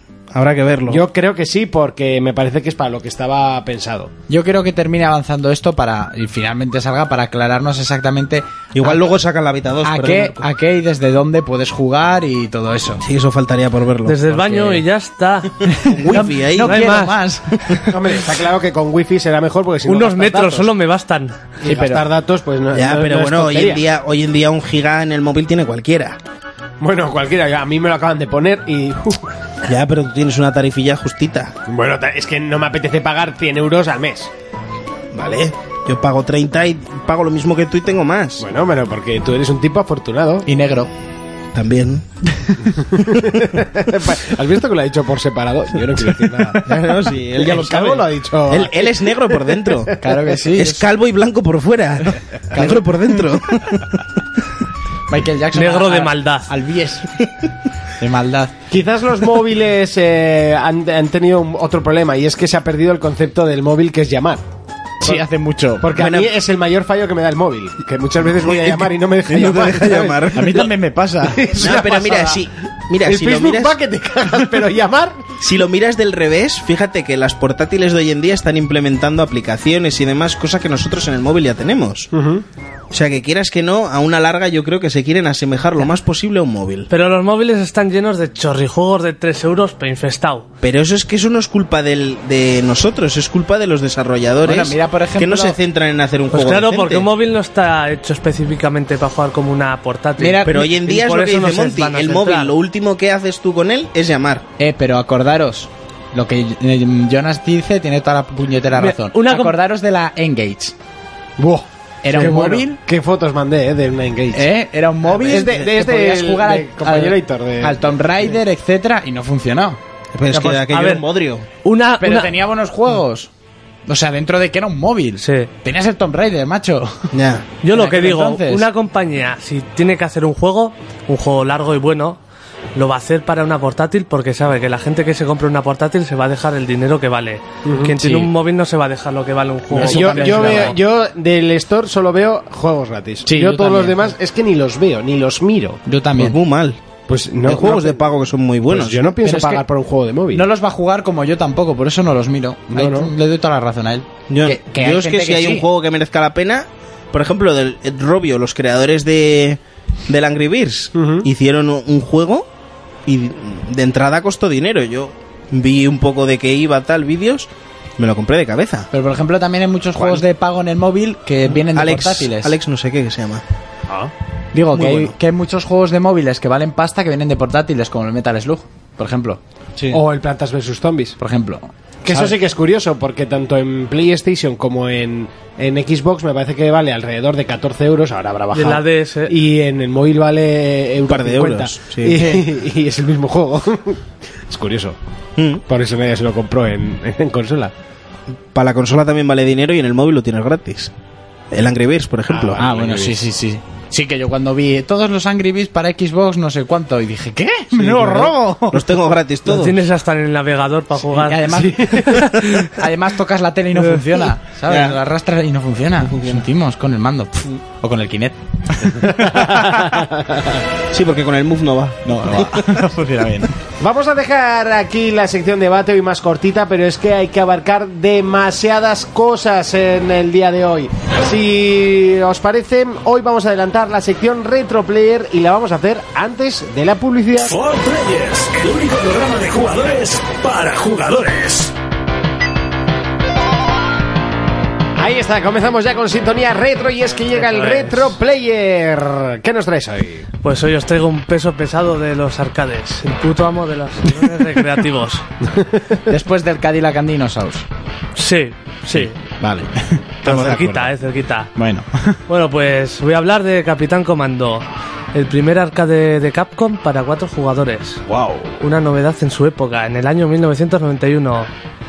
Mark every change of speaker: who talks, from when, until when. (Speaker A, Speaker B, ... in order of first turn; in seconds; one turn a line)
Speaker A: 0.3-1.0
Speaker B: 0.9-4.1
Speaker C: 4.3-9.1
Speaker A: 8.7-10.5
Speaker C: 9.8-13.0
Speaker A: 13.0-14.8
Speaker D: 14.1-17.2
Speaker C: 15.7-17.8
Speaker A: 15.8-16.8
Speaker B: 17.9-20.7
Speaker D: 19.9-21.4
Speaker B: 21.6-23.8
Speaker C: 21.6-22.1
Speaker A: 22.7-26.2
Speaker B: 26.8-29.3
Speaker A: 29.7-31.5
Speaker B: 31.7-34.3
Speaker A: 35.1-38.4
Speaker B: 38.4-40.5
Speaker C: 40.5-40.9
Speaker A: 41.5-42.1
Speaker B: 42.8-46.7
Speaker A: 46.6-50.0
Speaker B: 47.3-49.9
Speaker C: 50.0-50.8
Speaker A: 50.5-53.9
Speaker C: 52.5-52.9
Speaker C: 55.1-57.2
Speaker D: 55.5-56.5
Speaker C: 58.0-58.5
Speaker B: 58.7-64.4
Speaker C: 65.0-66.0
Speaker B: 65.8-70.7
Speaker A: 65.9-66.3
Speaker A: 68.4-70.7
Speaker C: 70.3-71.8
Speaker B: 71.2-72.4
Speaker A: 71.6-73.8
Speaker B: 73.0-75.3
Speaker A: 75.4-82.1
Speaker B: 82.1-82.4
Speaker A: 82.9-86.9
Speaker D: 86.9-90.5
Speaker A: 90.6-97.1
Speaker C: 94.4-95.6
Speaker D: 96.3-102.5
Speaker C: 100.2-100.8
Speaker A: 100.4-104.4
Speaker C: 104.6-110.7
Speaker D: 108.8-109.6
Speaker B: 111.4-114.5
Speaker C: 112.0-112.8
Speaker C: 114.3-119.8
Speaker B: 115.1-117.9
Speaker A: 120.1-121.5
Speaker D: 120.3-121.0
Speaker D: 121.6-122.3
Speaker C: 122.0-123.3
Speaker C: 123.9-127.1
Speaker D: 125.2-125.5
Speaker A: 127.1-127.5
Speaker D: 127.6-132.2
Speaker C: 127.7-128.7
Speaker D: 132.8-140.8
Speaker B: 137.7-138.0
Speaker C: 138.0-138.3
Speaker B: 139.7-145.8
Speaker C: 139.8-140.8
Speaker C: 143.2-144.1
Speaker C: 145.8-146.4
Speaker A: 146.2-146.8
Speaker B: 147.1-148.0
Speaker A: 147.4-149.1
Speaker B: 148.7-150.4
Speaker C: 149.2-149.6
Speaker C: 150.3-155.7
Speaker B: 152.7-153.1
Speaker A: 154.3-162.5
Speaker B: 160.9-161.3
Speaker A: 163.1-168.9
Speaker C: 168.9-172.6
Speaker A: 171.7-173.4
Speaker C: 174.5-179.4
Speaker A: 174.7-175.1
Speaker B: 179.9-181.2
Speaker C: 181.2-182.4
Speaker B: 182.0-195.0
Speaker D: 188.5-189.3
Speaker A: 191.1-192.4
Speaker A: 195.4-195.6
Speaker B: 195.7-197.7
Speaker A: 198.5-200.9
Speaker A: 201.5-202.6
Speaker B: 202.3-203.2
Speaker C: 202.6-208.9
Speaker B: 207.9-208.3
Speaker A: 208.7-209.8
Speaker D: 209.4-212.7
Speaker C: 211.1-220.0
Speaker B: 211.5-212.1
Speaker A: 214.7-214.9
Speaker B: 219.0-220.5
Speaker A: 220.9-222.7
Speaker C: 222.0-223.6
Speaker B: 223.8-237.5
Speaker E: 237.4-241.7
Speaker B: 245.0-250.3
Speaker D: 247.3-248.1
Speaker D: 250.4-255.2
Speaker C: 256.1-257.6
Speaker D: 258.1-259.1
Speaker C: 258.9-260.9
Speaker D: 260.2-261.5
Speaker C: 261.5-262.2
Speaker D: 262.3-268.0
Speaker B: 268.1-268.6
Speaker D: 268.6-271.5